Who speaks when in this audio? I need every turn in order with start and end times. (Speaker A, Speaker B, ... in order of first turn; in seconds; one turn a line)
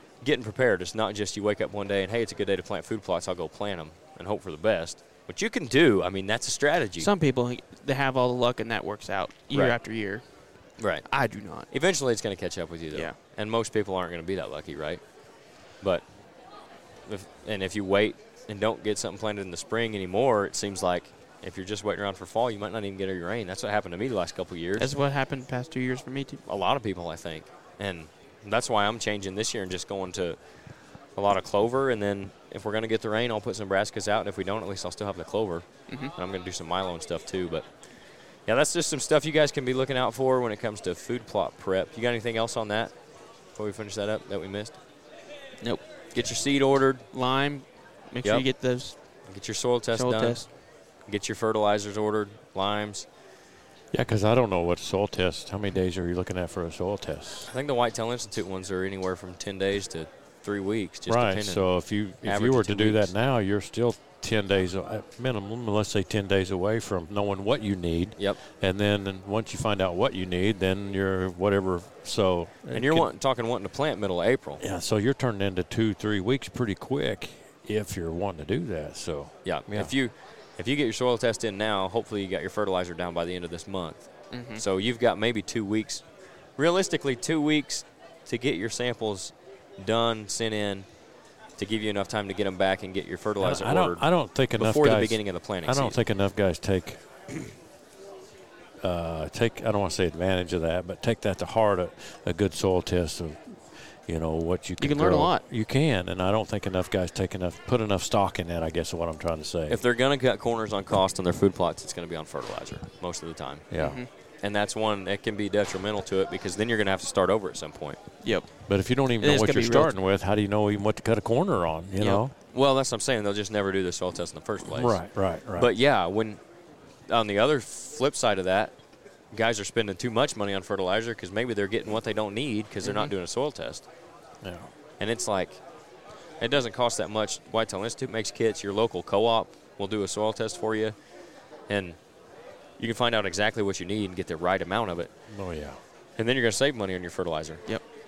Speaker A: 0.2-7.1
Speaker B: 7.0-10.2
Speaker A: 10.8-11.1
Speaker B: 11.0-11.7
Speaker A: 11.7-15.0
Speaker A: 15.8-16.0
Speaker A: 17.1-24.9
Speaker B: 24.8-26.4
Speaker A: 26.4-30.4
Speaker A: 31.1-37.7
Speaker A: 38.5-42.9
Speaker A: 43.5-44.8
Speaker A: 46.1-47.0
Speaker B: 47.1-48.9
Speaker A: 49.3-50.4
Speaker B: 49.9-50.5
Speaker A: 51.0-53.1
Speaker C: 53.9-57.5
Speaker A: 57.5-61.7
Speaker C: 61.1-73.1
Speaker A: 62.2-63.1
Speaker A: 72.7-74.6
Speaker C: 74.6-79.9
Speaker A: 79.4-86.0
Speaker B: 84.3-84.6
Speaker A: 86.6-90.8
Speaker A: 91.6-96.0
Speaker C: 93.4-97.0
Speaker C: 98.8-109.8
Speaker B: 104.8-105.4
Speaker A: 109.7-113.7
Speaker C: 113.7-114.0
Speaker B: 113.8-114.1
Speaker A: 114.4-118.0
Speaker B: 118.2-120.0
Speaker C: 118.7-122.3
Speaker A: 122.0-126.4
Speaker C: 124.6-125.7
Speaker A: 127.1-128.7
Speaker A: 129.3-133.8
Speaker B: 132.8-133.1
Speaker C: 134.4-134.7
Speaker A: 135.0-135.6
Speaker A: 136.4-140.9
Speaker A: 141.7-142.0
Speaker A: 142.8-145.1
Speaker C: 145.3-145.8
Speaker A: 146.2-147.6